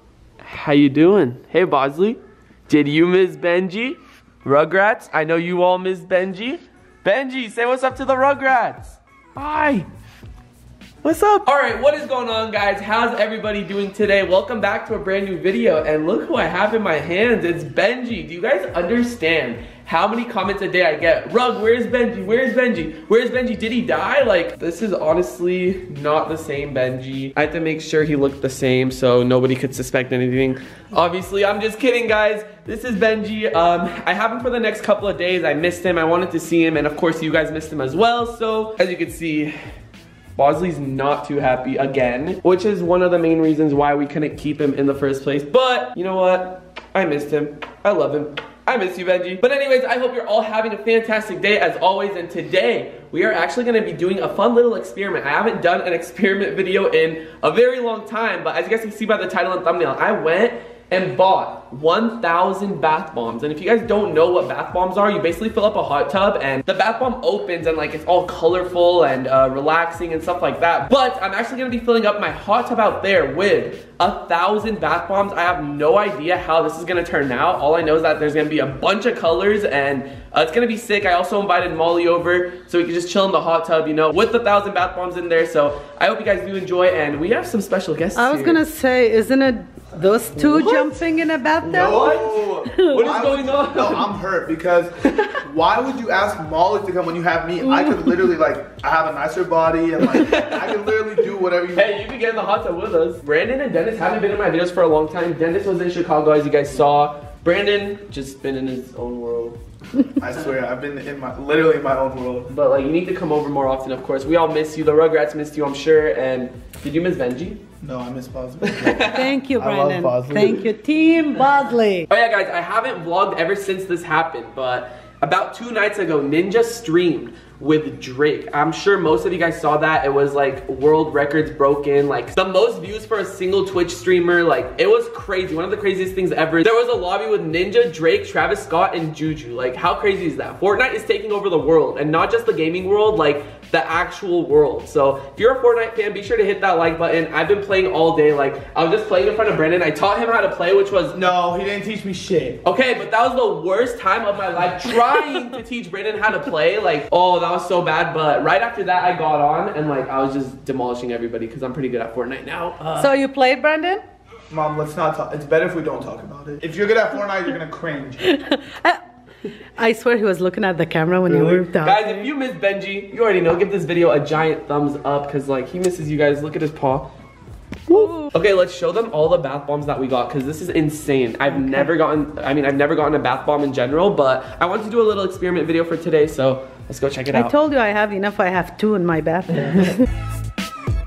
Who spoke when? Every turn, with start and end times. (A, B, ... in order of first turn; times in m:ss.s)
0:00.4-0:09.9 A
0:11.0-0:39.6 A
0:40.4-1:28.6 A
1:28.1-1:33.1 B
1:30.3-1:31.0 A
1:31.6-1:34.2 A
1:31.6-1:42.0 C
1:37.6-1:38.3 B
1:40.1-1:40.7 A
1:41.7-1:49.6 A
1:50.2-1:52.5 C
1:52.5-1:57.6 A
1:57.8-2:00.6 C
1:58.7-1:59.4 A
1:59.1-2:02.1 B
2:02.1-2:31.2 A
2:31.1-2:32.6 C
2:32.6-2:43.2 A
2:43.0-2:44.0 B
2:44.5-2:48.2 C
2:48.2-2:49.0 B
2:49.6-2:52.3 B
2:51.3-2:51.6 C
2:51.8-2:57.1 A
2:57.9-3:07.6 A
2:57.9-2:58.3 B
3:01.4-3:01.9 B
3:07.3-3:10.1 B